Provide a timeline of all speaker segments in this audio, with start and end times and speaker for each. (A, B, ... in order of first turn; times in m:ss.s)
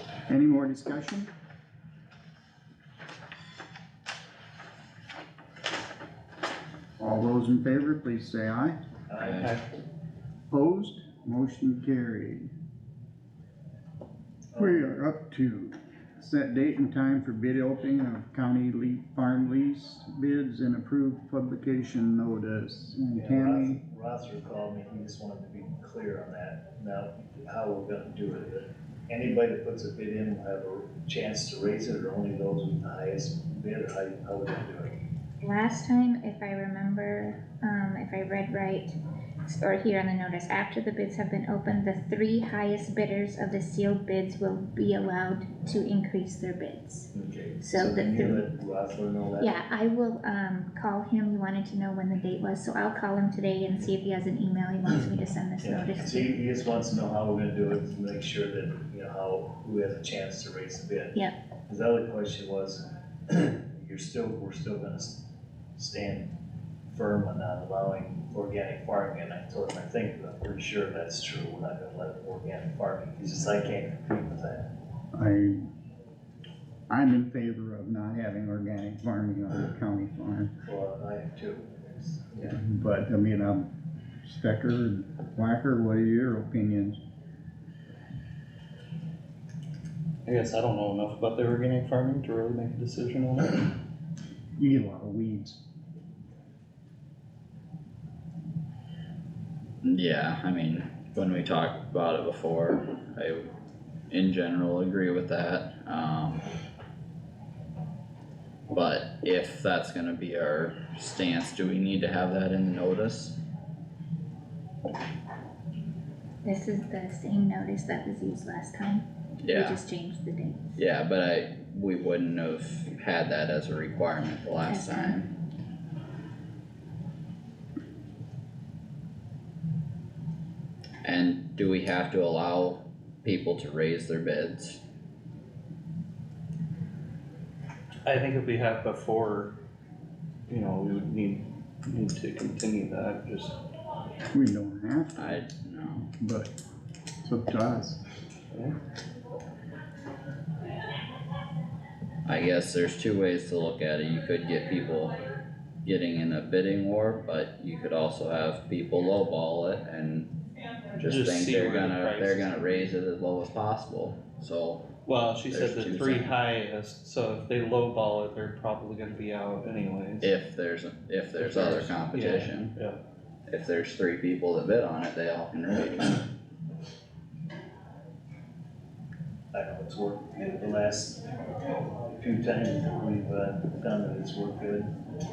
0:00.3-0:01.3 A
0:07.0-0:08.8 A
0:09.1-0:09.5 B
0:09.2-0:09.5 C
0:10.5-0:12.5 A
0:14.5-0:14.9 B
0:14.6-0:23.8 A
0:23.2-0:35.0 B
0:35.4-0:47.1 D
0:47.1-0:49.6 B
0:47.6-0:48.5 D
0:49.4-0:56.4 D
0:55.6-1:01.2 B
1:01.7-1:05.2 B
1:05.8-1:06.3 B
1:06.9-1:14.7 B
1:15.1-1:15.7 A
1:16.9-1:20.5 A
1:20.7-1:22.5 B
1:22.4-1:23.7 A
1:24.2-1:27.0 A
1:30.2-1:33.7 E
1:34.6-1:35.6 A
1:39.8-1:43.5 C
1:44.1-1:46.4 C
1:48.7-1:53.4 C
1:56.4-2:00.8 D
1:59.4-1:59.8 C
2:00.8-2:05.3 C
2:04.7-2:05.2 D
2:11.0-2:14.8 C
2:18.0-2:19.6 E
2:20.5-2:23.6 E
2:24.3-2:26.5 A
2:25.2-2:26.1 C
2:27.2-2:28.0 A
2:32.2-2:35.2 C
2:35.8-2:40.4 C
2:41.0-2:45.0 C
2:41.0-2:42.9 E
2:45.0-2:50.3 E
2:45.5-2:46.3 C
2:50.2-2:52.7 C
2:51.4-2:53.0 E
2:53.5-2:56.3 C
2:59.5-3:01.2 B
3:02.2-3:04.9 B